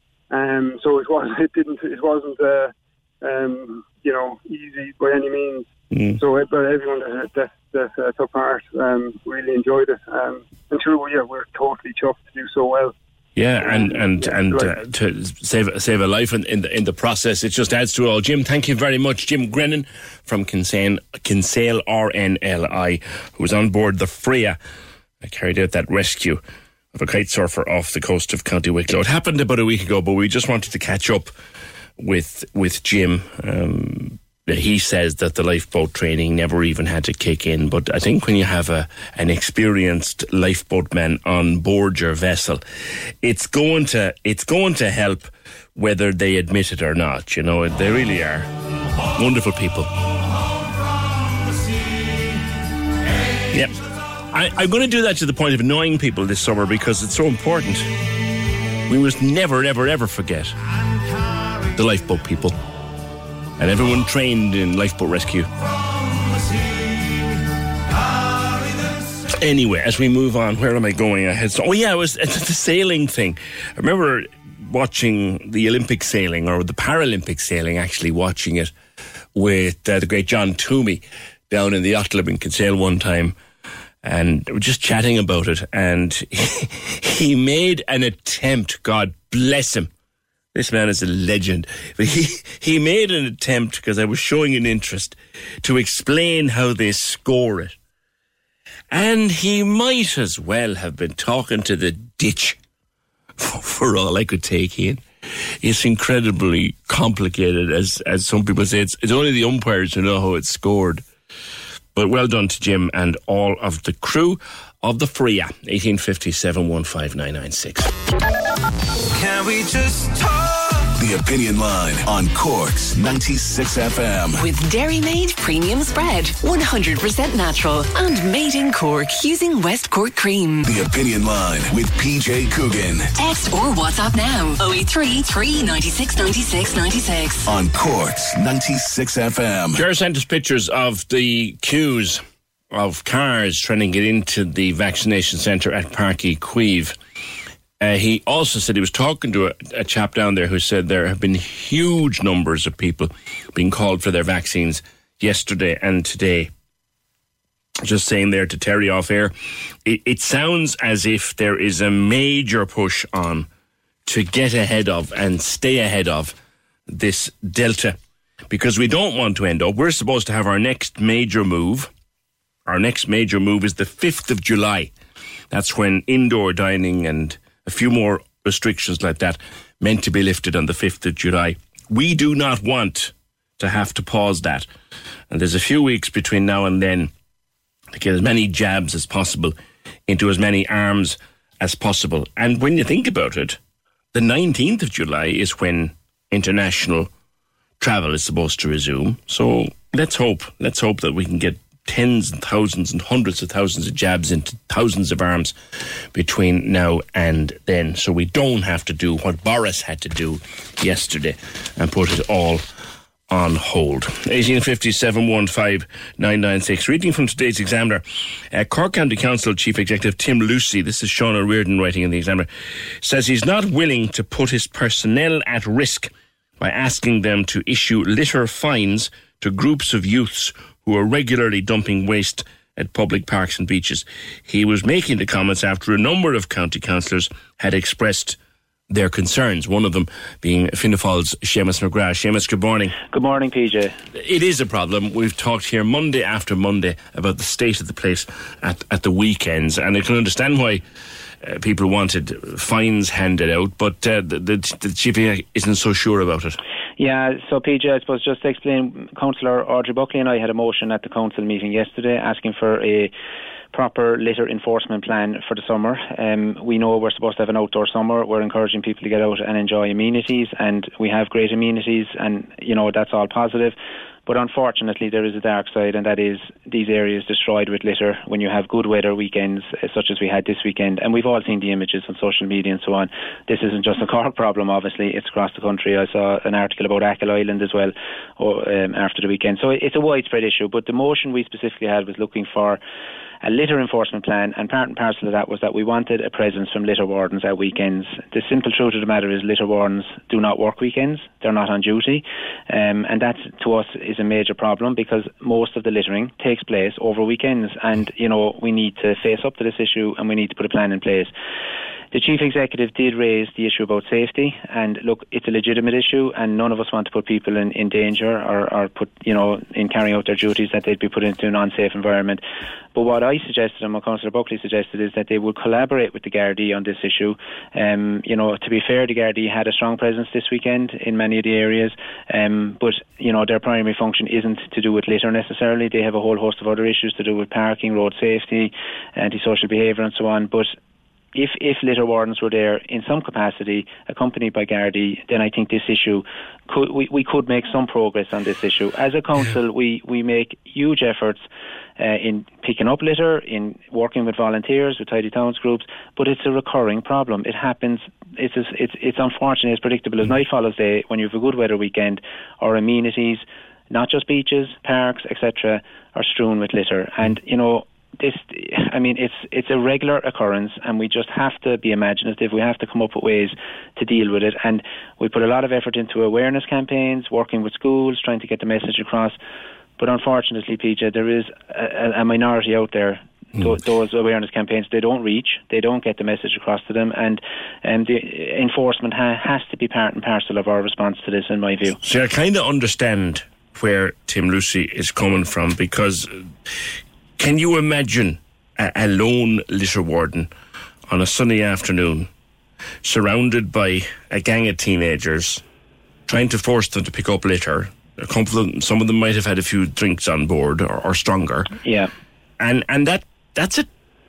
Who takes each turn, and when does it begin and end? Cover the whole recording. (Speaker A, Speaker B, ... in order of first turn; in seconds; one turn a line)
Speaker A: 0.3-12.9
Speaker B: 5.9-6.2
Speaker B: 13.3-24.6
Speaker A: 13.6-14.7
Speaker B: 25.2-26.4
Speaker B: 26.9-31.3
Speaker B: 32.0-42.6
Speaker B: 43.2-48.5
Speaker B: 49.1-49.9
Speaker B: 53.5-53.7
Speaker B: 54.3-57.9
Speaker B: 58.9-60.6
Speaker B: 61.7-62.6
Speaker B: 63.6-65.5
Speaker B: 69.4-78.7
Speaker B: 79.3-83.3
Speaker B: 84.0-89.9
Speaker B: 90.5-97.7
Speaker B: 98.9-102.6
Speaker B: 103.4-105.0
Speaker B: 105.6-111.0
Speaker B: 111.9-117.9
Speaker C: 119.2-120.3
Speaker D: 121.0-124.4
Speaker C: 124.4-130.6
Speaker D: 130.6-133.1
Speaker C: 133.2-137.5
Speaker D: 137.4-139.8
Speaker B: 139.7-146.9
Speaker B: 147.8-156.5
Speaker B: 157.8-159.3
Speaker B: 159.8-163.5
Speaker B: 164.0-166.3
Speaker B: 166.9-167.9
Speaker B: 168.5-171.9
Speaker B: 172.7-174.9
Speaker B: 175.5-184.7
Speaker B: 185.3-187.1
Speaker B: 187.9-189.5
Speaker B: 190.1-193.6
Speaker B: 194.1-197.1
Speaker B: 197.8-205.5
Speaker B: 206.1-212.6
Speaker B: 213.3-222.5
Speaker B: 223.0-238.4
Speaker B: 238.9-243.0
Speaker E: 243.0-243.9
Speaker B: 244.1-250.8
Speaker B: 251.4-256.6
Speaker E: 257.0-263.1
Speaker E: 263.7-292.8
Speaker E: 293.4-311.3
Speaker E: 312.1-322.4
Speaker E: 322.9-340.7
Speaker E: 341.3-351.4
Speaker E: 352.0-379.4
Speaker E: 380.0-392.0
Speaker B: 392.0-396.4
Speaker B: 397.4-400.5
Speaker B: 401.1-402.3
Speaker B: 403.0-405.6
Speaker B: 406.3-411.7
Speaker E: 411.8-412.1
Speaker B: 412.6-413.9